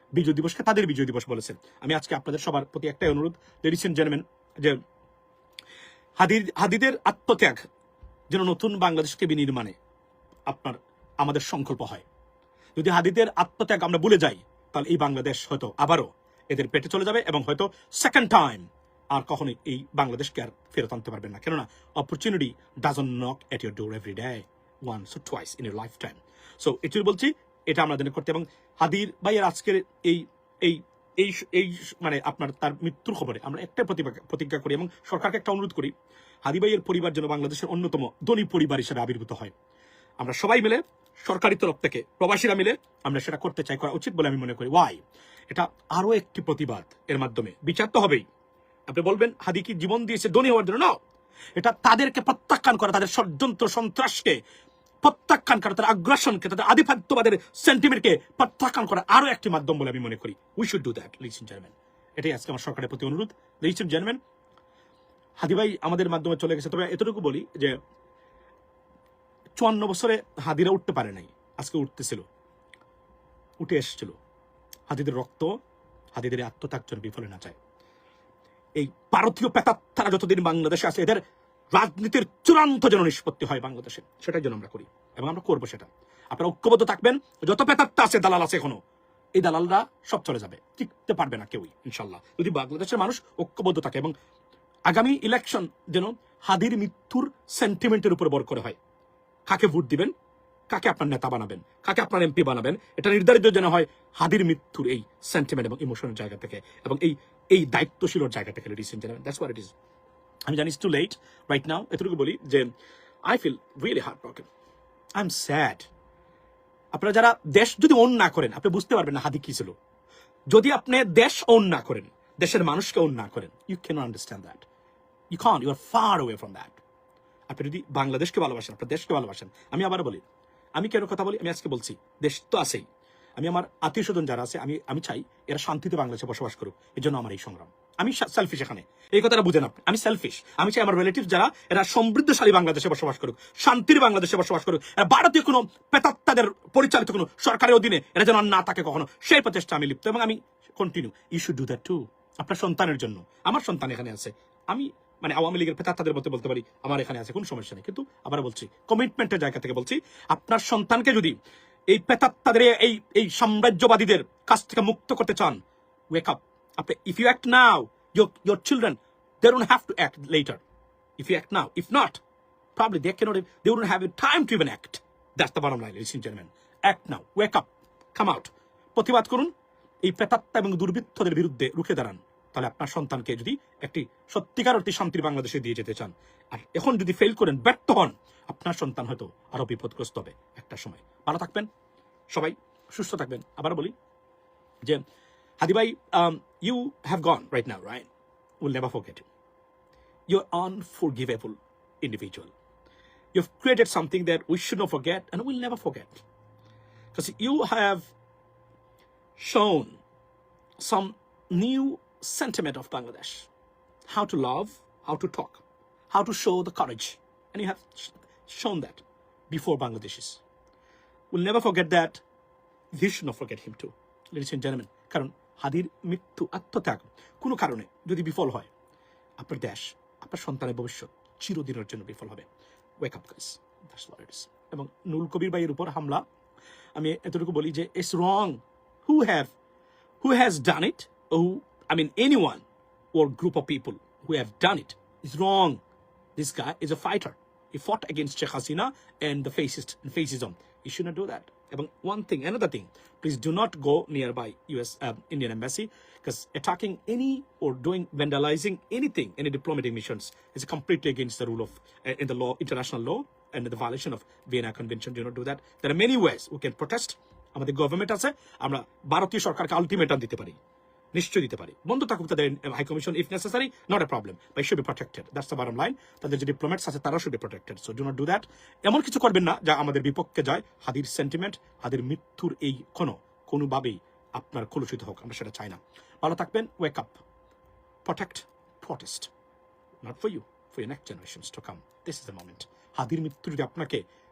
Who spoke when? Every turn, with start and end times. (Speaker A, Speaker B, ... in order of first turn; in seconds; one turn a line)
Speaker A: 0.1-4.8
Speaker A: 6.2-7.7
Speaker A: 8.3-9.8
Speaker A: 10.5-12.1
Speaker A: 12.8-39.5
Speaker A: 40.2-48.2
Speaker A: 48.9-51.0
Speaker A: 51.6-54.4
Speaker A: 55.0-64.2
Speaker A: 65.4-67.8
Speaker A: 69.6-72.3
Speaker A: 73.6-74.2
Speaker A: 74.9-75.6
Speaker A: 76.1-77.6
Speaker A: 78.8-88.8
Speaker A: 89.3-94.2
Speaker A: 94.9-98.8
Speaker A: 99.5-100.1
Speaker A: 100.7-109.7
Speaker A: 110.5-112.7
Speaker A: 113.3-114.5
Speaker A: 115.2-115.9
Speaker A: 116.9-119.8
Speaker A: 120.5-124.7
Speaker A: 125.3-126.8
Speaker A: 127.5-130.2
Speaker A: 130.8-132.9
Speaker A: 133.4-170.6
Speaker A: 171.2-172.2
Speaker A: 172.8-179.5
Speaker A: 180.0-191.7
Speaker A: 192.3-193.9
Speaker A: 195.6-198.1
Speaker A: 198.6-199.3
Speaker A: 200.3-202.5
Speaker A: 203.3-206.2
Speaker A: 207.1-208.1
Speaker A: 209.4-210.0
Speaker A: 210.8-213.5
Speaker A: 214.1-220.4
Speaker A: 221.3-222.2
Speaker A: 222.9-228.7
Speaker A: 229.4-232.5
Speaker A: 233.0-236.2
Speaker A: 237.0-239.5
Speaker A: 240.2-245.8
Speaker A: 246.4-270.6
Speaker A: 271.1-287.2
Speaker A: 288.0-289.3
Speaker A: 290.0-294.0